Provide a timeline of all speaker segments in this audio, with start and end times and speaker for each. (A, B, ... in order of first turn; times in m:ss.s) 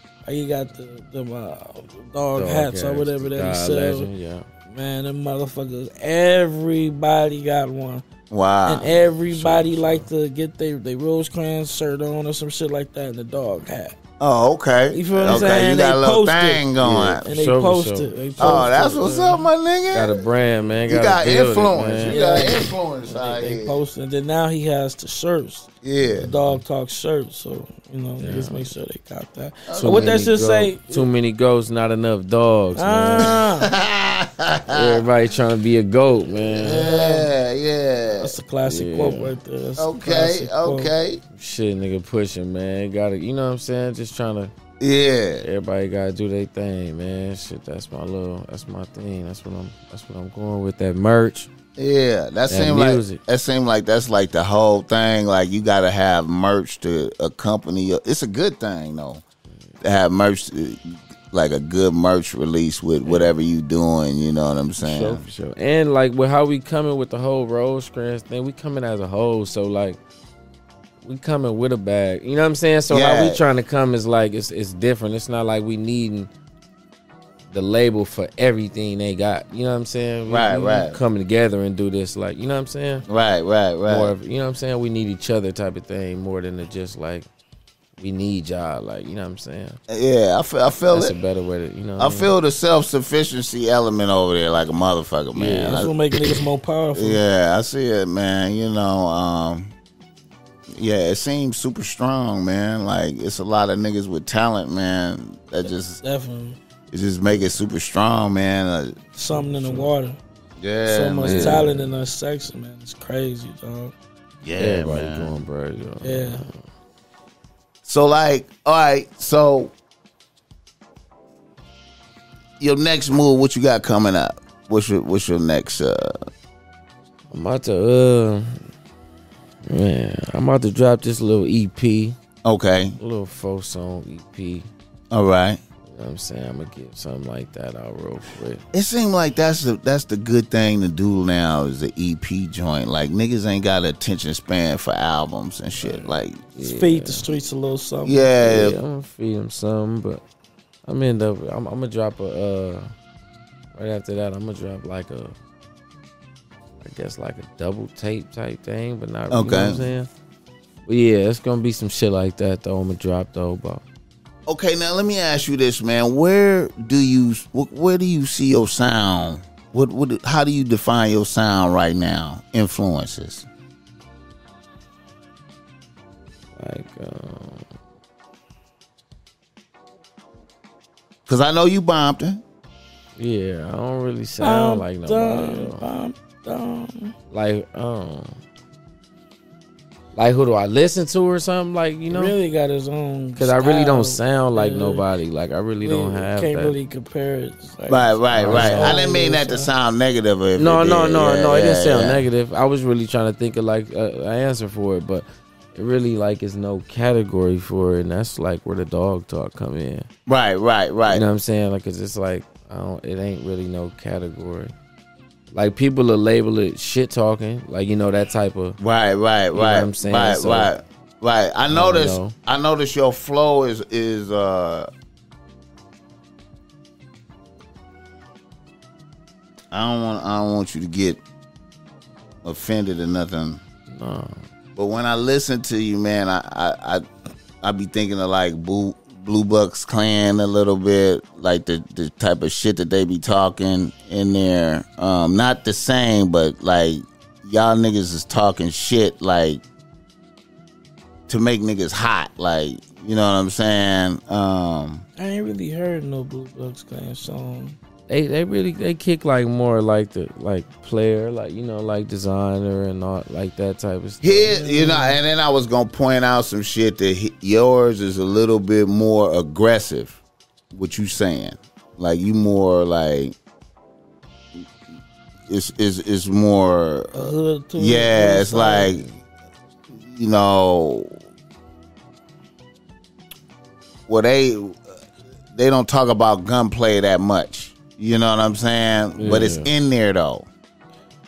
0:00.2-0:04.1 A
0:02.3-0:04.5 B
0:04.7-0:08.0 A
0:08.3-0:08.9 C
0:08.6-0:14.0 A
0:09.2-0:10.1 B
0:14.2-0:17.2 C
0:14.9-0:16.7 A
0:15.2-0:15.6 B
0:16.8-0:19.4 B
0:17.2-0:19.2 A
0:18.4-0:20.2 C
0:19.9-0:22.2 B
0:20.8-0:23.8 C
0:22.0-0:31.1 A
0:25.8-0:26.3 C
0:26.1-0:26.6 B
0:28.2-0:28.6 B
0:29.7-0:30.2 C
0:29.7-0:33.4 B
0:32.8-0:33.7 A
0:33.2-0:35.1 C
0:34.7-0:36.9 B
0:36.5-0:38.3 C
0:36.6-0:37.3 A
0:38.2-0:40.9 A
0:38.6-0:39.3 B
0:39.8-0:41.2 C
0:41.3-0:44.5 B
0:44.8-0:45.4 C
0:45.4-0:51.5 B
0:51.8-0:59.2 C
0:52.5-0:53.2 B
0:59.8-1:05.2 C
1:03.0-1:03.3 B
1:04.8-1:10.0 B
1:11.0-1:16.3 B
1:12.9-1:13.4 C
1:17.5-1:23.0 B
1:20.3-1:21.0 C
1:23.1-1:24.1 C
1:23.9-1:27.2 B
1:28.0-1:29.8 B
1:29.9-1:31.1 C
1:30.9-1:32.3 B
1:32.0-1:35.9 C
1:35.3-1:35.9 B
1:35.6-1:37.2 A
1:36.9-1:39.7 C
1:40.8-1:46.0 C
1:46.0-1:46.6 A
1:46.9-1:49.0 C
1:49.2-1:50.2 A
1:49.3-1:49.9 B
1:50.6-1:51.7 C
1:50.8-1:53.9 A
1:51.2-1:51.9 B
1:54.4-1:55.4 C
1:54.6-1:56.6 B
1:56.0-1:56.5 A
1:57.8-1:59.7 C
2:02.6-2:06.2 C
2:07.3-2:08.6 B
2:09.6-2:12.2 B
2:12.4-2:13.0 C
2:13.0-2:14.7 B
2:15.1-2:15.6 C
2:15.9-2:18.6 B
2:18.7-2:26.4 C
2:26.6-2:27.3 B
2:26.6-2:28.3 A
2:28.0-2:28.8 C
2:28.4-2:30.2 B
2:30.8-2:32.9 B
2:33.7-2:35.3 B
2:36.8-2:40.1 B
2:39.3-2:39.9 C
2:40.8-2:43.8 B
2:44.5-2:53.5 C
2:56.6-2:57.7 B
3:01.2-3:02.4 C
3:03.2-3:05.8 B
3:04.4-3:07.1 A
3:07.3-3:08.4 B
3:10.1-3:12.4 B
3:12.1-3:15.0 A
3:13.4-3:16.8 B
3:15.8-3:19.7 A
3:17.9-3:22.2 C
3:18.3-3:19.0 B
3:20.6-3:30.1 B
3:30.3-3:31.2 C
3:31.1-3:34.7 B
3:35.5-3:38.8 B
3:38.8-3:44.9 C
3:39.5-3:40.7 B
3:41.7-3:42.3 B
3:49.7-3:51.2 C
3:52.4-3:53.6 C
3:53.9-3:54.4 B
3:54.8-3:57.0 C
3:57.6-4:09.6 C
4:11.3-4:15.0 C
4:15.2-4:17.8 A
4:18.1-4:24.5 B
4:24.2-4:30.2 C
4:24.5-4:25.2 A
4:30.7-4:33.3 C
4:35.5-4:39.1 C
4:37.1-4:38.9 A
4:39.9-4:41.1 C
4:44.1-4:44.8 C
4:45.5-4:50.5 C
4:49.2-4:49.7 B